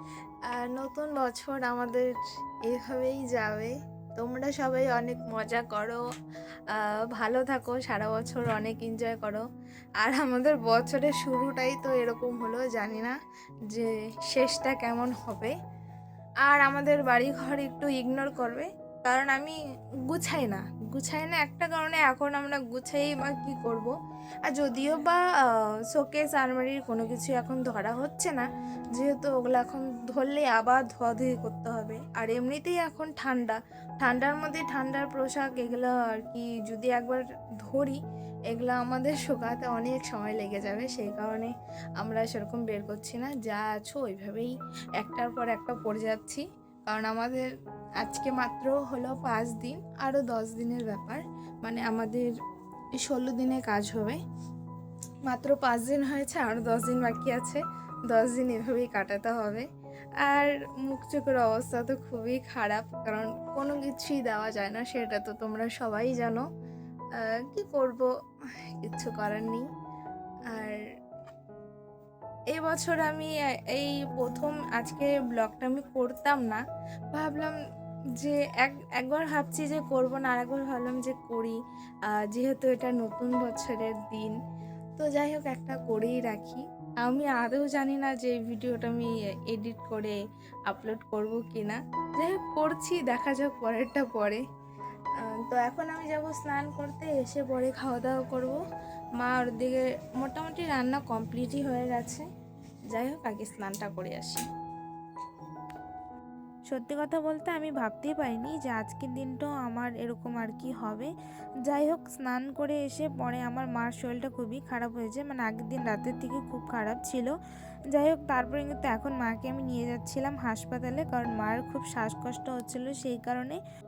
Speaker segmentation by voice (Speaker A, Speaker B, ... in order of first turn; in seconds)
Speaker A: 0.5-2.1, 2.7-6.0, 6.7-9.4, 10.0-13.2, 13.7-15.6, 16.4-19.6, 20.1-23.9, 24.5-25.2, 25.9-28.4, 28.9-47.5, 48.0-52.3, 53.0-54.2, 55.3-59.7, 60.2-66.4, 67.2-68.1, 68.8-69.7, 70.5-70.8, 72.5-76.6, 77.1-77.5, 78.2-84.4, 85.0-94.4, 95.2-98.6, 99.2-102.3, 102.9-104.5, 107.1-107.5, 108.1-111.0, 111.7-117.2, 118.0-123.6
Speaker B: 106.7-111.1, 111.7-117.3, 118.0-119.6, 120.3-123.6